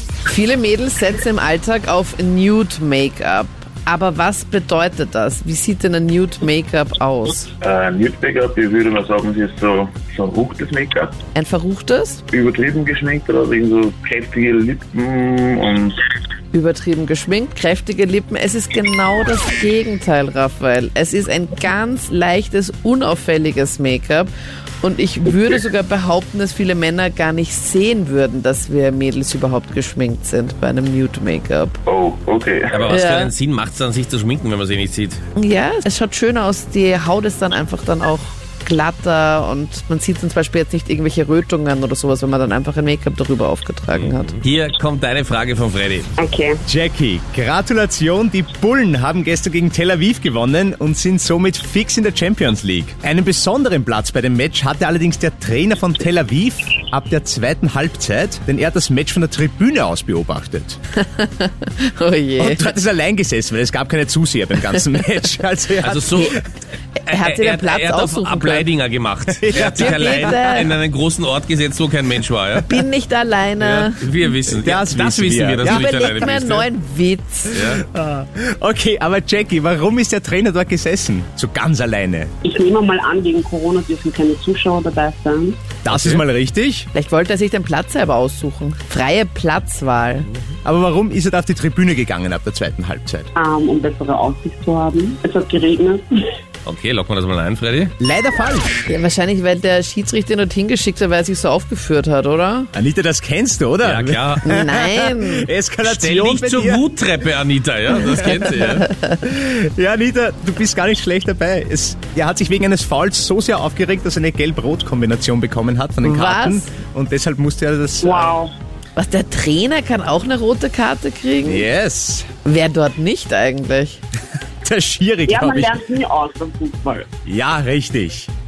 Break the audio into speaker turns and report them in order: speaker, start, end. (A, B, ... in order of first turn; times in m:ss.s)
0:00.2-0:07.5 A
0:07.6-0:11.1 B
0:11.3-0:12.2 A
0:12.3-0:16.0 B
0:16.5-0:31.8 A
0:31.8-0:32.9 B
0:32.7-0:35.2 C
0:32.9-0:33.3 A
0:35.4-0:44.4 A
0:43.9-0:46.1 C
0:46.2-0:46.6 D
0:46.6-1:00.8 E
1:01.0-1:02.7 A
1:02.4-1:06.4 E
1:05.8-1:06.4 C
1:07.1-1:08.7 A
1:07.1-1:12.8 C
1:09.3-1:10.7 E
1:09.5-1:10.7 A
1:12.6-1:14.2 A
1:13.6-1:16.7 C
1:14.5-1:15.9 E
1:15.6-1:17.6 A
1:17.5-1:17.8 C
1:17.6-1:22.3 E
1:22.4-1:25.7 D
1:25.8-1:26.9 E
1:25.9-1:26.2 C
1:26.9-1:30.3 A
1:30.6-1:33.3 E
1:33.3-1:36.3 D
1:36.6-1:37.9 C
1:38.0-1:38.8 E
1:38.8-1:42.7 A
1:42.7-1:46.8 E
1:43.8-1:44.5 C
1:44.4-1:45.5 A
1:45.8-1:48.9 C
1:48.1-1:49.2 A
1:48.2-1:58.4 E
1:56.0-1:56.7 A
1:58.0-1:58.5 D
1:59.0-2:01.7 A
2:01.4-2:02.3 E
2:02.4-2:04.0 A
2:04.6-2:05.8 E
2:05.3-2:07.1 D
2:07.2-2:08.3 E